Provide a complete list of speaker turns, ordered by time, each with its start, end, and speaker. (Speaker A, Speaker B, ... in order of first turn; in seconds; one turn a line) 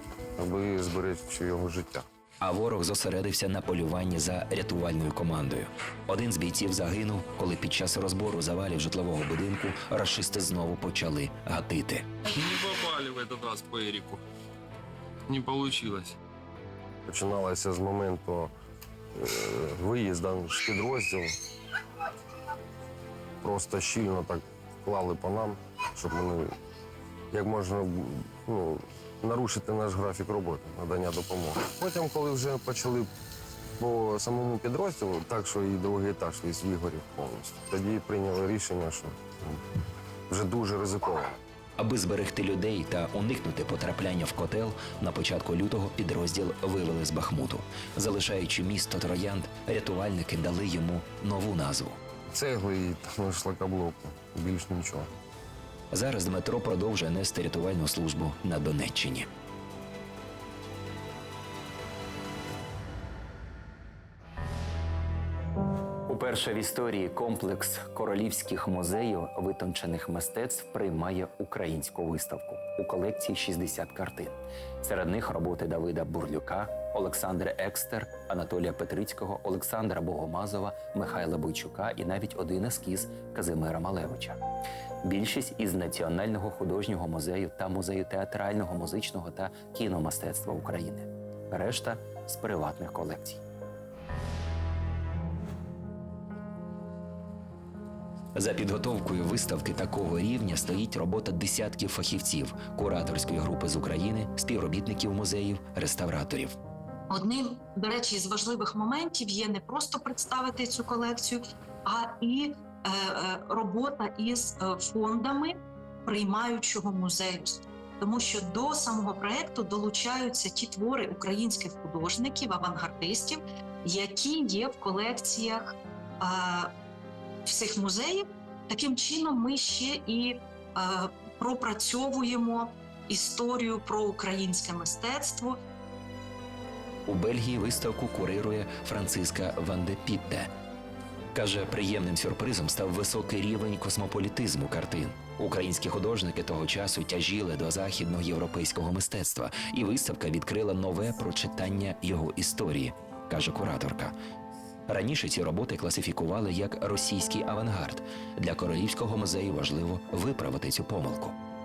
Speaker A: 0.4-2.0
Speaker B: 2.4-12.1
Speaker C: 12.3-14.2
Speaker C: 15.3-16.1
Speaker A: 17.1-18.5
Speaker A: 19.2-21.3
Speaker A: 23.4-26.5
Speaker A: 27.3-33.1
Speaker A: 33.8-39.6
Speaker A: 40.3-41.4
Speaker B: 41.8-52.0
Speaker A: 52.3-55.1
Speaker B: 55.9-59.3
Speaker B: 66.1-84.4
Speaker B: 85.0-93.4
Speaker B: 98.3-106.6
Speaker D: 107.1-126.7
Speaker D: 127.5-135.6
Speaker B: 137.1-140.5
Speaker B: 141.3-154.1
Speaker B: 154.9-161.3